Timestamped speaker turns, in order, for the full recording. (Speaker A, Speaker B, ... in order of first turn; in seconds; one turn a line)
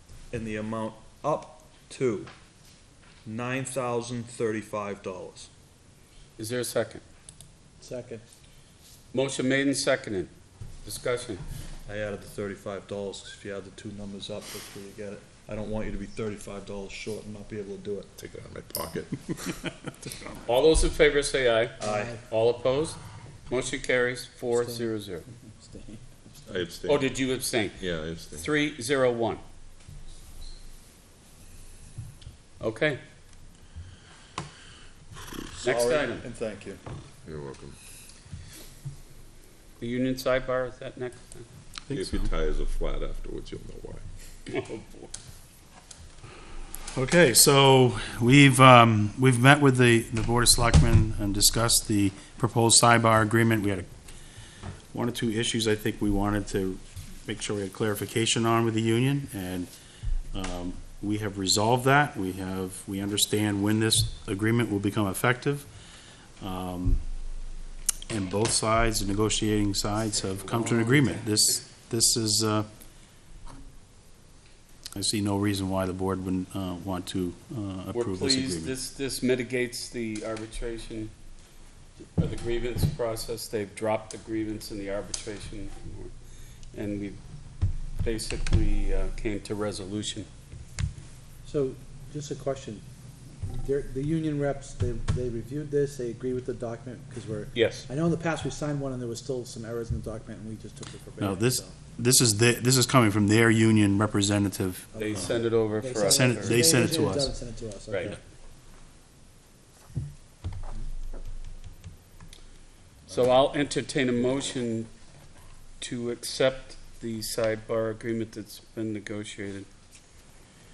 Speaker A: 0.3-2.3
Speaker A: 3.2-5.5
Speaker B: 6.4-7.0
Speaker C: 7.8-8.2
Speaker B: 9.1-10.3
Speaker B: 10.8-11.4
Speaker A: 11.9-18.1
Speaker D: 18.2-19.6
Speaker B: 20.5-23.0
Speaker A: 21.8-22.1
Speaker C: 21.8-22.2
Speaker B: 23.5-25.2
Speaker C: 24.5-24.9
Speaker C: 25.4-26.7
Speaker D: 26.5-27.2
Speaker B: 26.9-27.8
Speaker D: 27.8-28.5
Speaker B: 28.3-29.4
Speaker B: 32.6-33.0
Speaker A: 35.5-36.8
Speaker B: 35.6-36.2
Speaker D: 37.3-37.8
Speaker B: 39.8-41.5
Speaker E: 41.9-42.3
Speaker D: 41.9-44.0
Speaker B: 44.5-45.1
Speaker E: 46.9-53.9
Speaker E: 54.9-59.7
Speaker E: 60.3-65.7
Speaker E: 66.4-67.0
Speaker E: 68.1-72.7
Speaker B: 70.5-71.1
Speaker E: 75.0-78.8
Speaker B: 77.9-81.1
Speaker B: 82.2-86.1
Speaker B: 86.7-87.2
Speaker B: 88.0-90.3
Speaker C: 91.5-92.8
Speaker C: 93.5-101.8
Speaker B: 97.5-97.9
Speaker E: 101.2-105.4
Speaker C: 104.9-108.2
Speaker B: 105.0-106.6
Speaker E: 106.0-107.3
Speaker B: 107.9-108.2
Speaker B: 113.1-114.9
Speaker B: 115.8-119.7